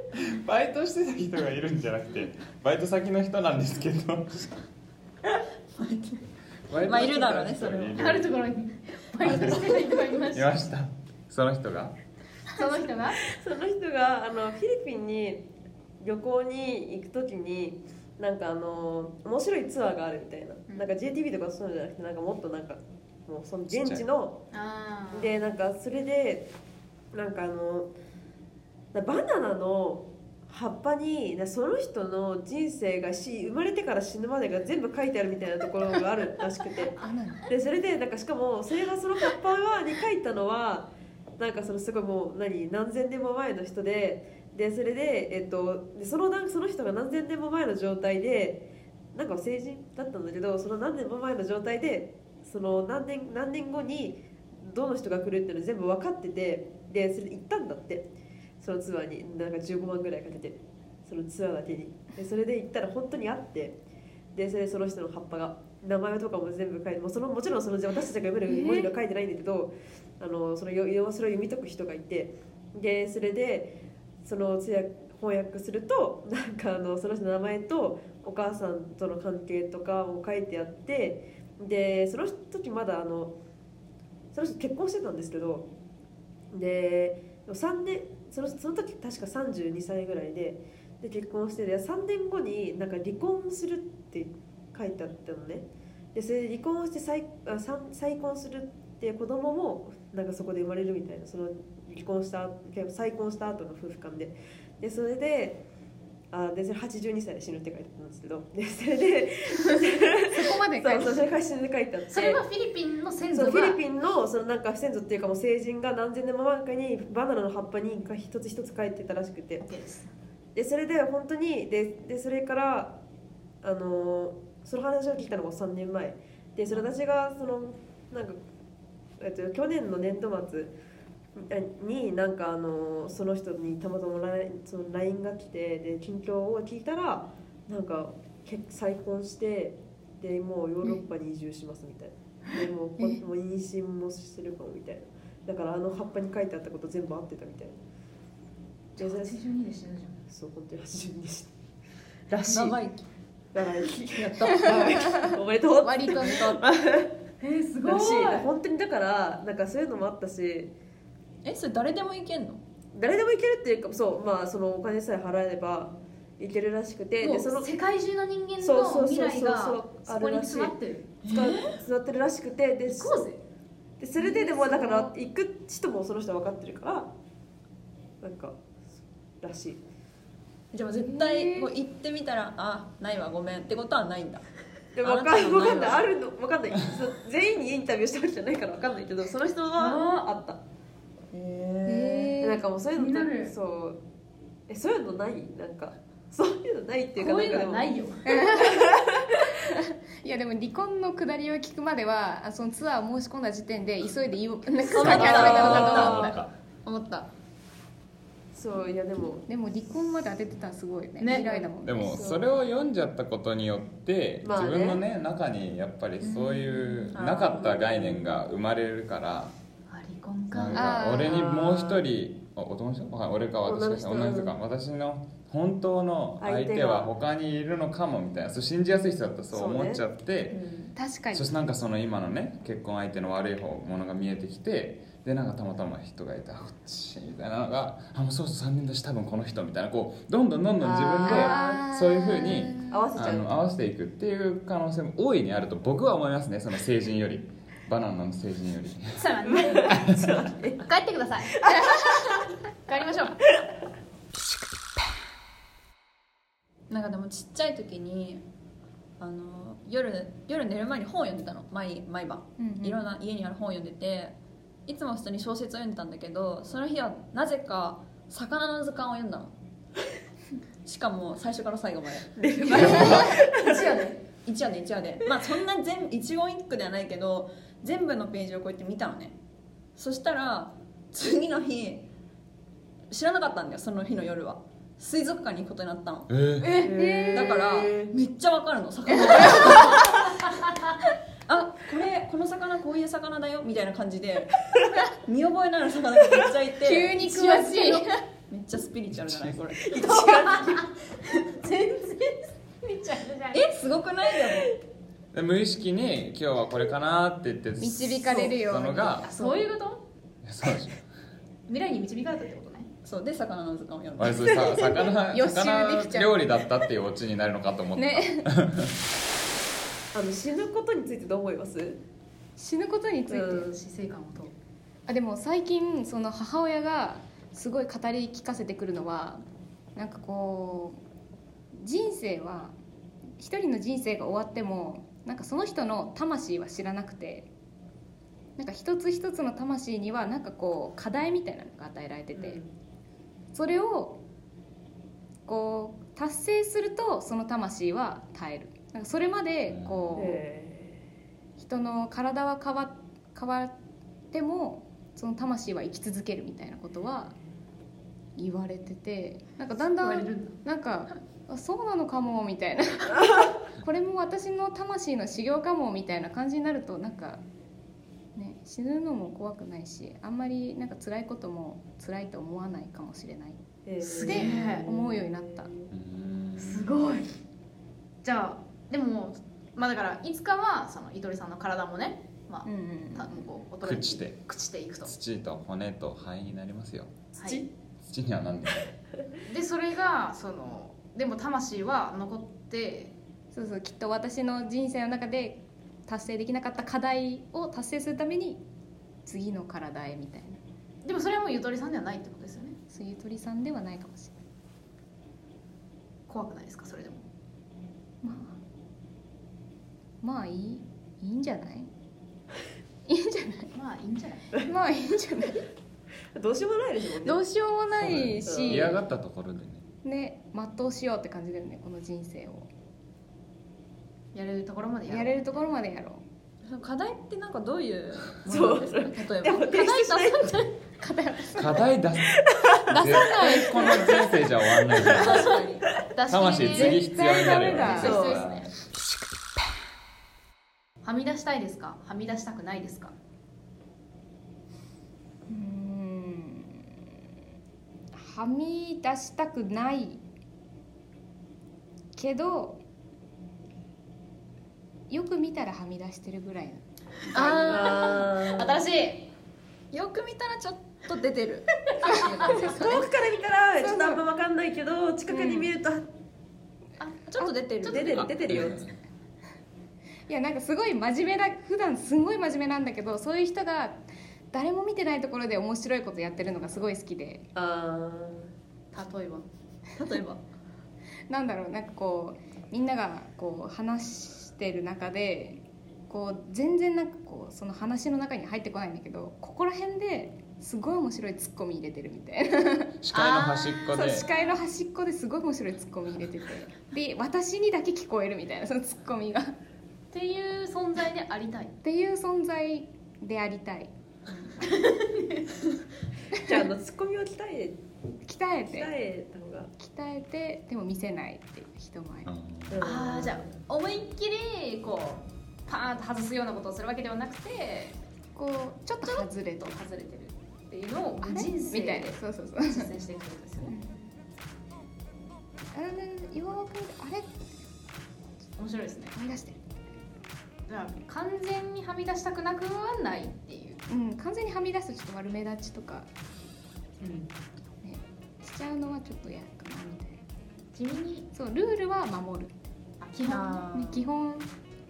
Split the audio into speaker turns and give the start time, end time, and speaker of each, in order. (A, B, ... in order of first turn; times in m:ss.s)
0:00.2-0:04.6 A
0:05.8-0:06.2 B
0:06.7-0:08.3 A
0:06.8-0:08.0 B
0:08.0-0:10.6 C
0:09.2-0:09.8 A
0:10.3-0:12.0 A
0:12.5-0:13.2 C
0:13.3-0:15.5 D
0:16.0-0:24.4 D
0:23.7-0:24.1 A
0:24.5-0:25.3 C
0:25.1-0:26.5 D
0:27.1-0:27.9 D
0:28.9-0:58.1 D
0:37.0-0:37.5 E
0:58.6-1:03.8 D
1:04.4-1:23.3 D
1:08.5-1:08.9 E
1:24.3-1:25.7 D
1:26.5-1:45.6 D
1:46.3-1:52.4 D
1:50.3-1:51.2 E
1:52.1-1:53.8 C
1:53.3-1:59.6 D
1:59.6-2:00.1 C
2:00.6-2:03.0 D
2:03.6-2:08.4 D
2:09.2-2:10.7 D
2:11.4-2:27.8 D
2:29.0-2:30.2 C
2:29.0-2:29.4 D
2:30.3-2:31.5 D
2:32.3-2:32.8 D
2:32.4-2:33.0 B
2:33.5-2:37.3 D
2:34.1-2:35.2 B
2:35.8-2:36.6 C
2:37.4-2:38.5 C
2:37.8-2:40.7 D
2:41.4-2:42.6 B
2:43.0-2:47.7 D
2:47.2-2:51.2 C
2:48.6-2:53.2 D
2:51.2-2:51.8 B
2:52.9-2:53.4 C
2:54.0-2:57.1 D
2:54.2-2:55.1 C
2:58.2-2:58.6 D
2:59.4-2:59.8 D
3:00.7-3:04.5 B
3:01.0-3:01.7 E
3:05.0-3:10.6 D
3:05.0-3:06.0 B
3:09.8-3:10.3 C
3:11.3-3:12.4 B
3:11.9-3:12.6 E
3:12.4-3:14.0 D
3:13.0-3:13.5 C
3:14.7-3:17.9 D
3:17.2-3:18.3 C
3:18.2-3:19.0 E
3:18.6-3:19.4 D
3:19.7-3:26.4 E
3:24.9-3:26.3 C
3:25.0-3:26.3 B
3:25.0-3:26.5 A
3:26.8-3:27.3 B
3:28.5-3:29.5 D
3:29.5-3:32.3 E
3:31.2-3:31.5 C
3:31.3-3:32.5 D
3:31.8-3:39.6 A
3:34.4-3:35.0 D
3:36.3-3:38.0 B
3:37.3-3:38.2 D
3:39.9-3:40.8 C
3:40.5-3:50.6 A
3:40.7-3:41.6 E
3:41.0-3:42.0 D
3:43.7-3:44.5 D
3:46.4-3:47.1 D
3:49.5-3:50.0 D
3:50.5-3:50.8 B
3:51.0-3:51.5 E
3:51.3-4:09.3 A
4:00.8-4:01.8 D
4:01.3-4:03.1 E
4:02.9-4:03.5 D
4:09.2-4:12.0 C
4:09.5-4:10.8 D
4:11.6-4:12.3 D
4:12.9-4:13.4 C
4:16.9-4:18.4 B
4:19.2-4:24.4 B
4:22.6-4:23.0 E
4:24.9-4:29.5 B
4:30.8-4:39.4 B
4:32.4-4:34.0 D
4:32.7-4:34.1 C
4:32.7-4:33.3 A
4:40.0-4:42.1 B
4:43.1-4:46.3 B
4:46.3-4:46.7 A
4:46.6-4:46.9 C
4:46.8-4:47.7 E
4:46.8-4:48.1 D
4:47.3-4:50.3 B
4:49.5-4:49.9 E
4:51.5-4:57.5 B
4:56.8-4:58.2 E
4:57.2-4:58.0 C
4:58.5-5:00.0 B
4:59.8-5:00.9 D
5:00.1-5:00.9 C
5:01.4-5:03.7 C
5:03.5-5:04.8 B
5:05.3-5:09.3 A
5:07.8-5:09.4 E
5:09.2-5:10.0 C
5:10.4-5:11.0 A
5:11.7-5:12.9 C
5:13.0-5:15.1 B
5:14.2-5:18.9 A
5:15.3-5:16.5 E
5:18.0-5:18.5 E
5:20.1-5:22.0 D
5:22.6-5:23.7 E
5:23.3-5:23.8 D
5:23.7-5:24.5 C
5:25.1-5:29.4 E
5:30.0-5:31.0 E
5:31.8-5:32.8 E
5:33.4-5:37.5 E
5:38.6-5:42.6 E
5:42.4-5:42.7 D
5:43.5-5:44.2 E
5:45.5-5:50.4 E
5:49.7-5:50.3 A
5:50.2-5:51.0 D
5:51.6-5:53.8 E
5:54.3-5:57.4 E
5:58.4-6:07.4 E
5:59.8-6:00.6 C
6:08.4-6:13.6 E
6:13.9-6:15.9 D
6:14.0-6:14.9 C
6:14.2-6:15.7 E
6:15.9-6:17.0 A
6:16.6-6:17.2 D
6:18.2-6:25.1 C
6:22.6-6:23.5 E
6:23.8-6:24.4 A
6:25.1-6:27.2 A
6:27.4-6:27.6 C
6:27.4-6:27.7 D
6:28.0-6:28.9 A
6:29.5-6:33.1 C
6:33.5-6:38.6 E
6:39.3-6:40.6 E
6:41.0-6:42.8 C
6:42.9-6:44.4 E
6:46.3-6:47.2 C
6:48.2-6:48.6 E
6:50.2-6:51.9 E
6:53.1-6:53.7 E
6:53.7-6:54.6 C
6:54.6-6:55.7 E
6:56.4-6:57.4 D
6:57.2-6:59.0 E
6:58.0-6:59.8 A
6:58.5-6:59.0 D
7:00.0-7:02.7 E
7:04.3-7:05.5 C
7:05.1-7:06.2 E
7:06.7-7:09.7 B
7:08.5-7:10.6 D
7:09.7-7:10.7 C
7:11.0-7:11.8 E
7:11.5-7:15.6 A
7:12.3-7:13.8 D
7:12.9-7:14.3 E
7:14.9-7:15.5 D
7:15.0-7:15.8 B
7:15.1-7:18.7 C
7:16.3-7:18.7 A
7:16.4-7:18.2 E
7:17.9-7:18.5 D
7:21.0-7:23.1 C
7:25.5-7:26.9 E
7:28.1-7:30.2 E
7:32.2-7:32.8 E
7:35.1-7:37.8 E
7:37.3-7:39.3 C
7:37.4-7:38.2 B
7:37.7-7:38.9 D
7:39.9-7:43.0 B
7:42.0-7:42.6 E
7:42.1-7:42.6 C
7:42.4-7:46.1 D
7:43.8-7:44.2 E
7:45.3-7:45.7 E
7:47.0-7:47.3 C
7:47.3-7:48.4 B
7:47.8-7:48.2 C
7:47.8-7:48.8 D
7:48.2-7:48.9 A
7:50.3-7:57.5 E
7:57.6-7:58.5 D
7:58.9-7:59.5 C
8:00.0-8:00.4 B
8:01.3-8:13.0 E
8:13.0-8:14.3 A
8:13.1-8:14.5 C
8:13.9-8:19.6 E
8:20.1-8:21.8 C
8:21.8-8:23.9 E
8:24.6-8:25.6 C
8:26.3-8:27.8 D
8:28.2-8:28.9 E
8:28.7-8:29.7 D
8:29.8-8:32.3 E
8:32.3-8:32.8 A
8:32.7-8:33.5 D
8:32.8-8:38.0 C
8:38.4-8:39.8 E
8:39.0-8:43.8 C
8:41.2-8:42.9 E
8:43.6-8:44.0 E
8:45.7-8:47.4 E
8:48.6-8:49.2 C
8:49.2-8:49.6 E
8:50.7-8:53.8 C
8:53.9-8:56.1 E
8:57.0-8:57.3 D
8:57.8-9:00.2 E
9:00.7-9:01.3 C
9:01.3-9:02.5 E
9:03.0-9:03.9 C
9:03.3-9:04.0 B
9:03.4-9:04.5 E